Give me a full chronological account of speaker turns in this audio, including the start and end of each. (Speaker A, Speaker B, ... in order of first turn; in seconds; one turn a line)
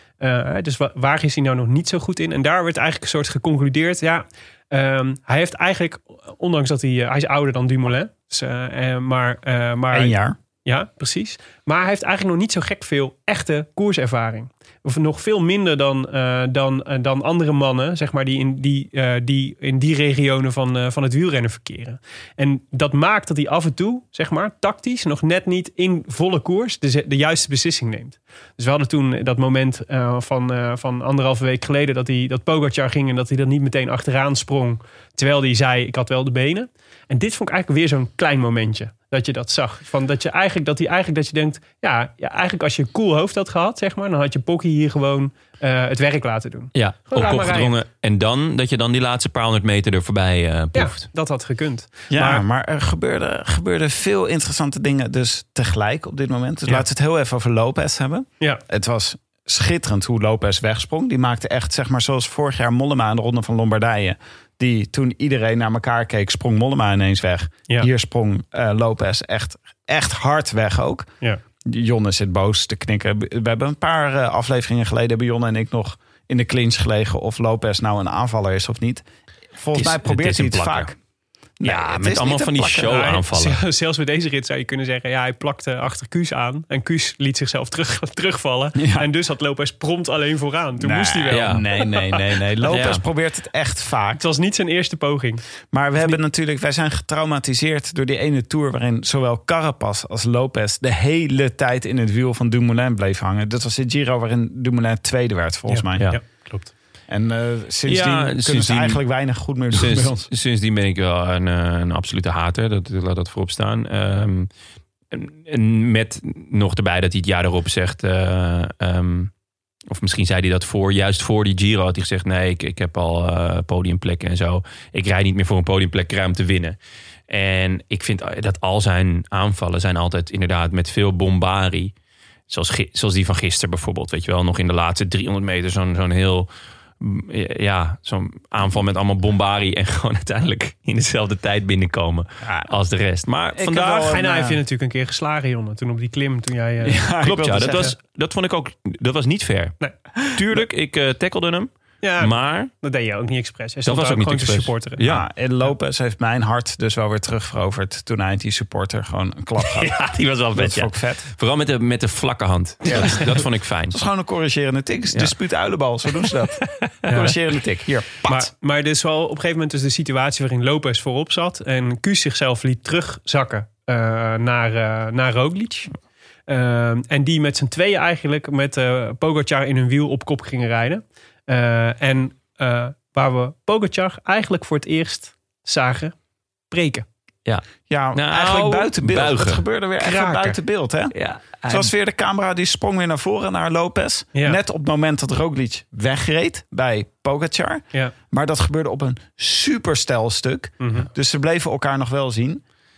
Speaker A: 0.2-47.8
Speaker B: 9.9-10.4
Speaker C: 46.8-51.1
Speaker A: 50.7-52.4
Speaker B: 52.1-71.1
Speaker B: 71.7-79.0
Speaker B: 79.6-81.0
Speaker C: 79.7-80.9
Speaker B: 81.6-83.1
Speaker C: 81.6-83.6
Speaker A: 82.9-92.2
Speaker B: 88.8-89.1
Speaker B: 90.8-94.2
Speaker C: 91.3-91.7
Speaker C: 92.7-93.0
Speaker A: 94.2-95.4
Speaker B: 95.7-106.1
Speaker A: 105.7-106.7
Speaker B: 107.1-110.3
Speaker C: 107.9-109.0
Speaker C: 109.7-114.5
Speaker C: 115.1-119.3
Speaker C: 119.9-126.8
Speaker C: 127.3-131.9
Speaker C: 132.5-136.5
Speaker C: 137.0-144.2
Speaker B: 142.4-142.7
Speaker B: 143.5-144.6
Speaker A: 144.1-147.9
Speaker B: 146.8-147.9
Speaker C: 147.2-149.8
Speaker C: 150.3-152.7
Speaker A: 152.0-155.0
Speaker C: 153.9-155.2
Speaker B: 155.0-161.3
Speaker C: 159.7-164.0
Speaker B: 162.9-168.5
Speaker C: 166.9-167.3
Speaker A: 168.2-175.9
Speaker A: 176.5-186.2
Speaker A: 186.7-187.1
Speaker C: 187.5-189.6
Speaker B: 187.9-202.6
Speaker A: 190.0-190.6
Speaker C: 191.1-191.9
Speaker A: 200.8-201.1